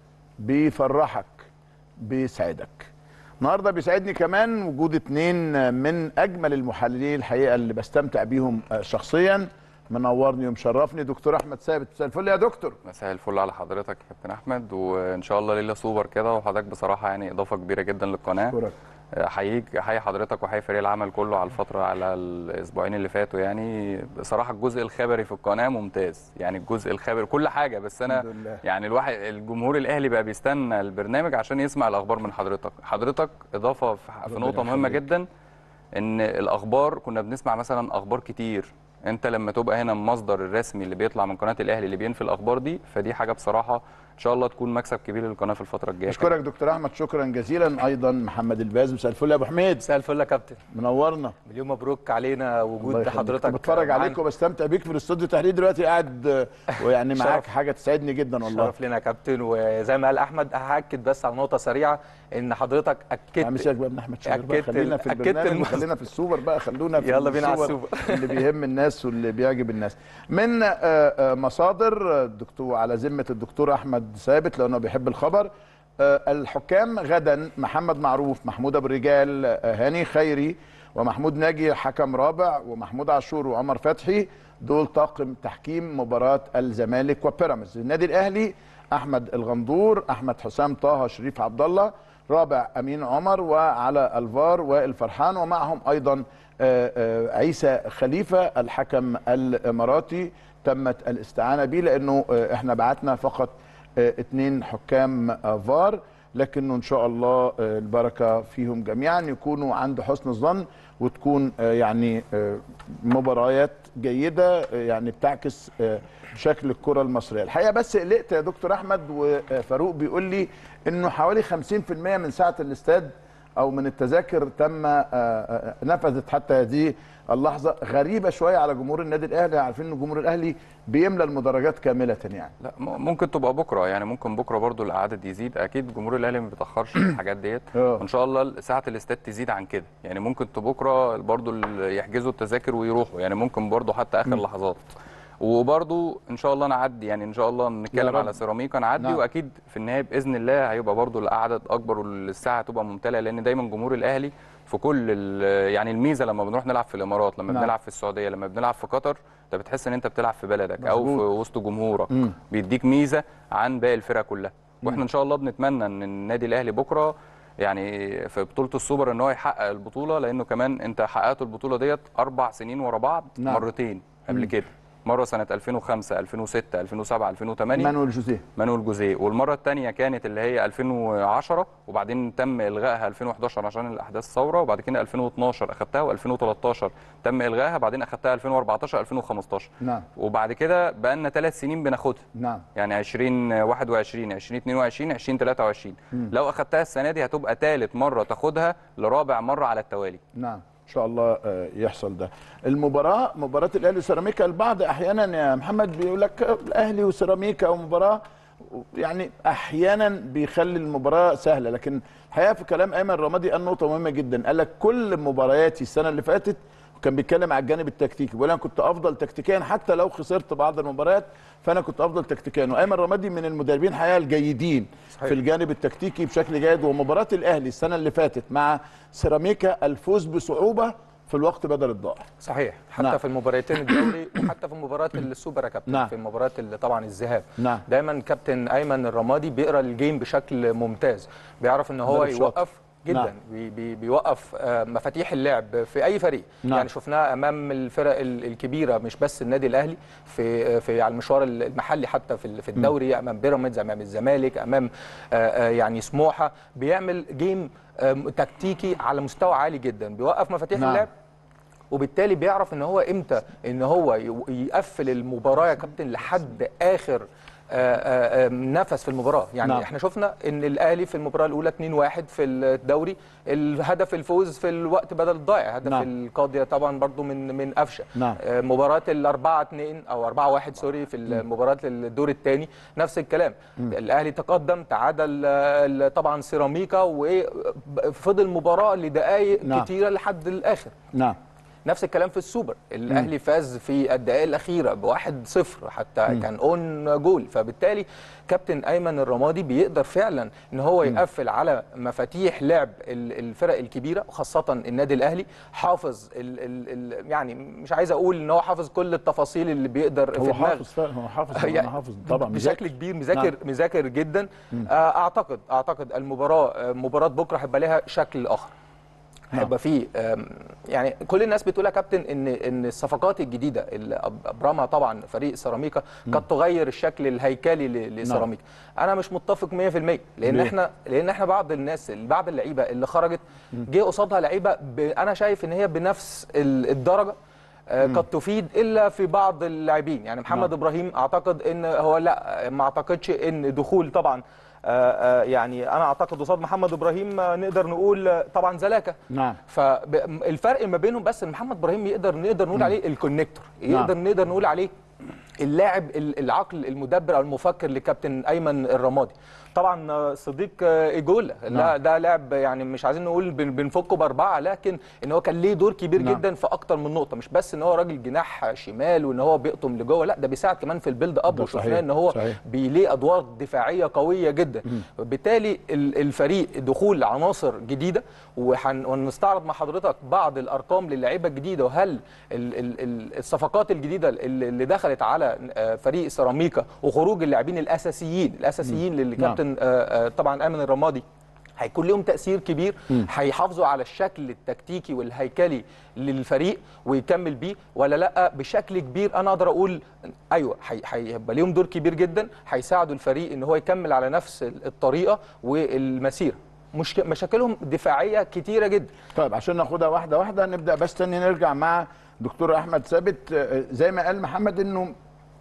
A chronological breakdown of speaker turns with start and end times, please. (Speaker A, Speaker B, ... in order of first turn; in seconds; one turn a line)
Speaker A: 0.4-1.5
Speaker A: 2.0-2.9
Speaker A: 3.4-12.8
Speaker B: 12.8-18.6
Speaker A: 18.5-18.8
Speaker B: 19.1-35.3
Speaker A: 28.1-28.6
Speaker A: 34.3-35.0
Speaker B: 36.0-46.4
Speaker A: 46.1-49.8
Speaker C: 49.8-50.6
Speaker A: 50.7-51.4
Speaker C: 51.5-54.2
Speaker A: 52.8-58.7
Speaker C: 56.7-57.5
Speaker C: 58.5-63.7
Speaker A: 63.4-132.5
Speaker C: 64.2-65.9
Speaker C: 67.0-68.4
Speaker B: 132.6-144.9
Speaker A: 137.8-138.0
Speaker B: 145.4-177.9
Speaker A: 147.9-148.3
Speaker A: 160.8-161.2
Speaker A: 173.4-173.7
Speaker A: 177.7-178.4
Speaker B: 178.6-192.2
Speaker A: 192.4-192.7
Speaker B: 192.8-200.2
Speaker A: 200.3-232.3
Speaker C: 232.4-261.1
Speaker A: 237.6-237.8
Speaker A: 242.1-242.6
Speaker A: 260.8-261.1
Speaker C: 261.9-290.9
Speaker C: 291.9-310.9
Speaker A: 310.4-313.5
Speaker C: 311.5-318.7
Speaker C: 319.5-337.4
Speaker A: 330.5-330.7
Speaker C: 337.9-354.9
Speaker A: 349.3-349.6
Speaker C: 355.6-391.2
Speaker A: 366.2-366.4
Speaker A: 371.5-372.6
Speaker A: 388.9-389.6
Speaker C: 391.8-409.1
Speaker A: 409.4-415.1